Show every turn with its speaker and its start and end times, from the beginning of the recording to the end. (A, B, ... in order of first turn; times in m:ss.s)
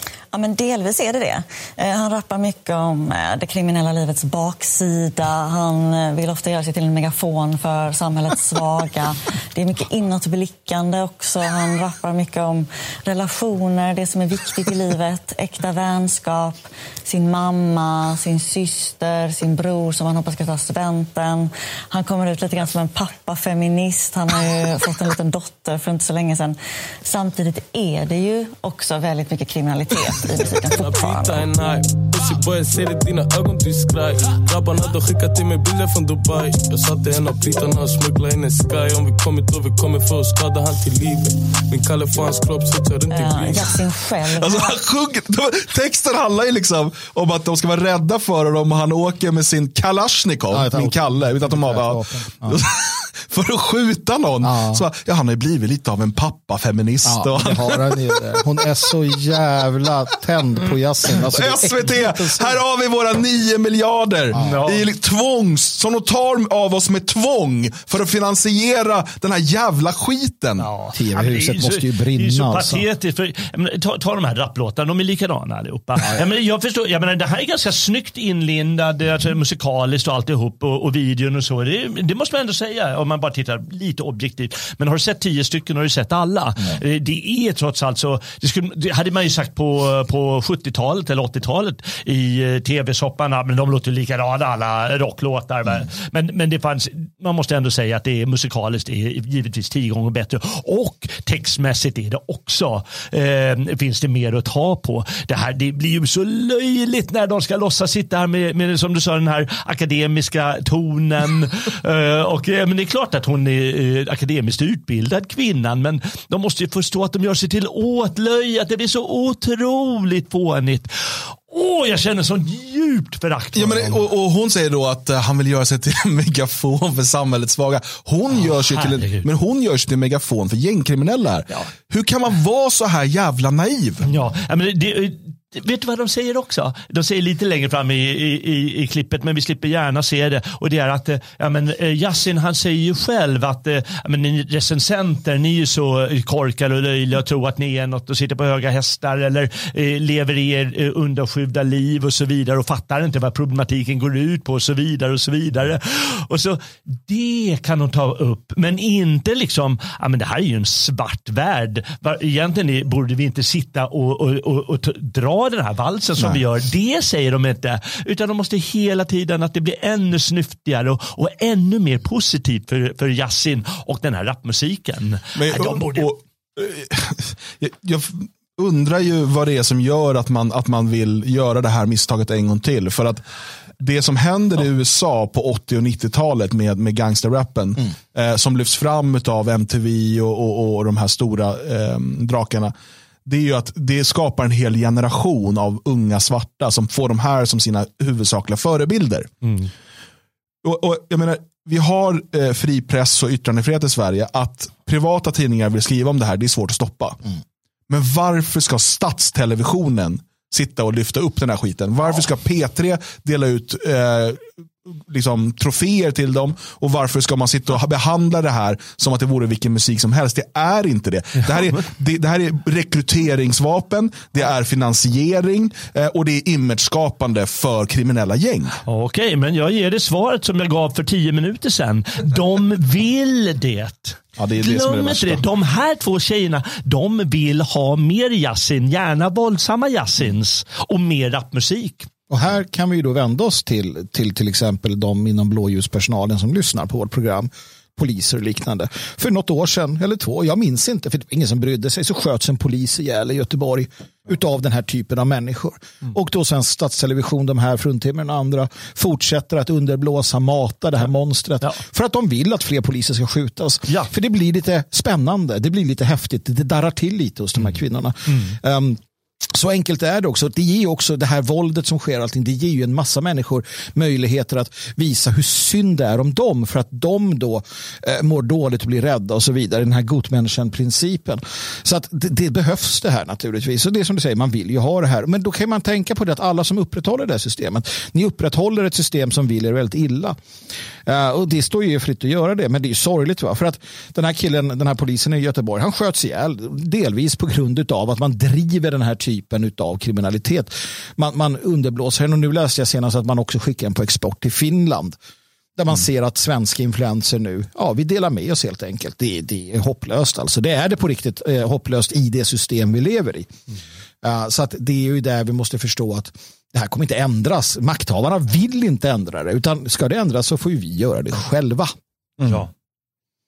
0:00.3-0:31.5 A
0:30.2-0:43.9 B
0:43.1-0:44.8 A
0:44.3-0:58.4 C
0:50.5-0:52.6 D
0:54.4-0:54.8 D
0:57.0-1:02.5 D
1:01.3-1:10.7 C
1:04.3-1:04.9 E
1:04.3-1:04.6 D
1:10.6-2:04.0 E
1:10.9-1:12.8 D
2:03.5-2:14.1 C
2:08.3-2:09.2 E
2:14.0-2:56.1 E
2:55.4-3:03.2 C
3:03.8-3:12.7 C
3:13.2-3:19.3 C
3:19.4-3:19.7 E
3:20.6-3:27.2 C
3:27.9-3:48.8 C
3:48.8-4:02.1 E
3:54.4-3:55.4 C
4:02.3-4:50.4 D
4:28.3-4:28.6 E
4:51.0-5:05.2 D
5:05.8-5:13.5 D
5:14.2-5:21.9 D
5:22.4-5:22.7 C
5:22.4-5:22.7 E